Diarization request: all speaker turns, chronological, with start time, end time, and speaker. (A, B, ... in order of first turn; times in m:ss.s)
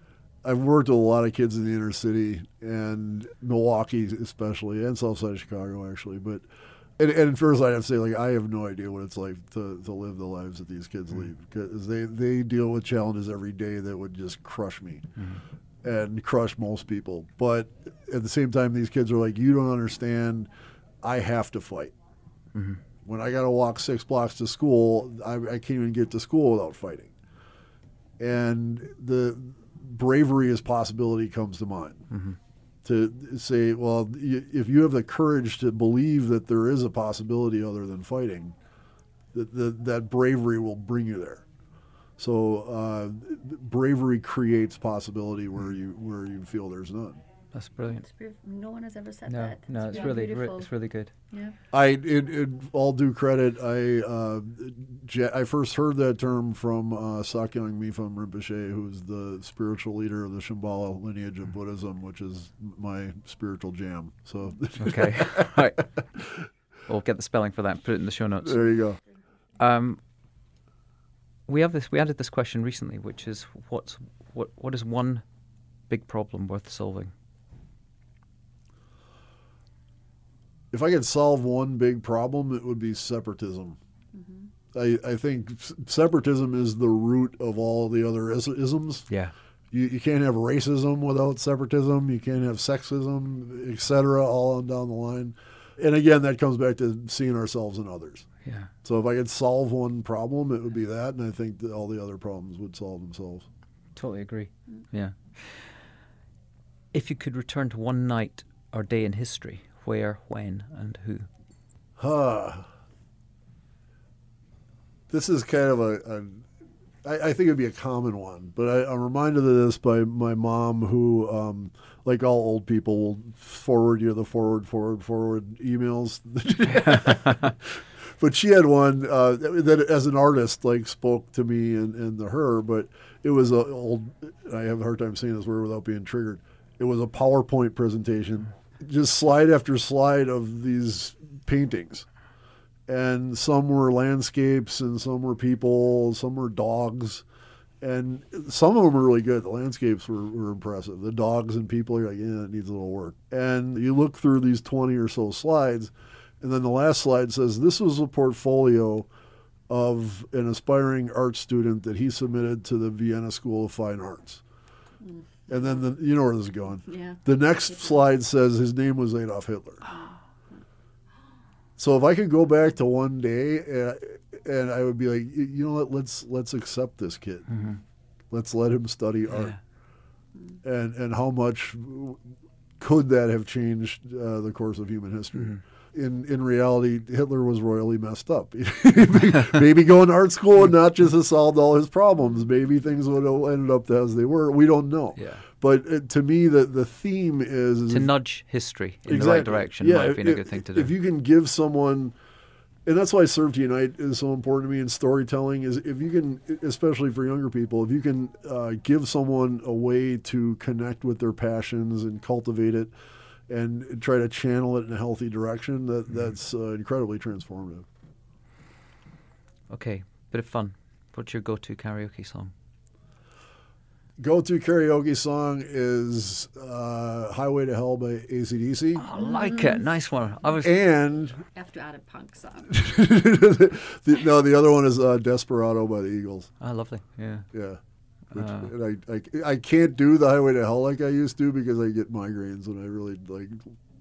0:00.4-0:06.4 A
0:07.0-0:15.1 A
0:15.8-0:20.5 A
0:21.0-0:21.9 A
0:22.5-0:22.8 B
0:23.0-0:27.1 A
0:28.2-0:32.1 A
0:32.1-0:32.4 B
0:32.8-0:38.6 A
0:39.3-0:41.4 A
0:42.2-0:47.2 A
0:47.5-0:48.0 B
0:48.0-0:50.7 C
0:49.3-0:51.1 B
0:51.7-1:05.7 A
1:04.8-1:05.9 B
1:06.9-1:08.6 B
1:08.4-1:09.0 A
1:09.6-1:10.0 B
1:11.5-1:15.2 B
1:15.9-1:17.1 B
1:20.7-1:23.8 A
1:24.7-1:29.1 A
1:29.7-1:38.3 A
1:38.4-1:38.7 B
1:38.8-1:43.5 A
1:44.0-1:45.8 B
1:46.9-1:51.3 B
1:52.0-1:52.7 A
1:55.1-1:56.5 A
1:57.0-2:22.1 A
2:06.7-2:07.5 B
2:22.9-2:27.2 A
2:27.8-2:39.1 A
2:39.7-2:44.4 A
2:45.5-2:49.8 A
2:46.9-2:47.2 C
2:49.9-2:50.1 C
2:51.8-2:57.7 A
2:57.5-2:57.8 B
2:58.3-2:59.6 A
2:59.3-2:59.6 B
3:00.6-3:02.2 A
3:02.8-3:18.1 A
3:15.2-3:15.4 B
3:17.9-3:20.9 B
3:19.1-3:22.1 A
3:22.9-3:32.9 A
3:33.5-3:37.8 A
3:39.7-3:42.5 B
3:44.2-3:49.0 A
3:49.0-3:50.7 B
3:49.2-3:49.8 C
3:50.6-3:51.4 A
3:51.5-3:52.8 C
3:52.7-3:56.5 A
3:56.6-3:57.5 B
3:57.5-3:57.8 A
3:58.3-4:03.7 A
3:58.3-3:58.7 B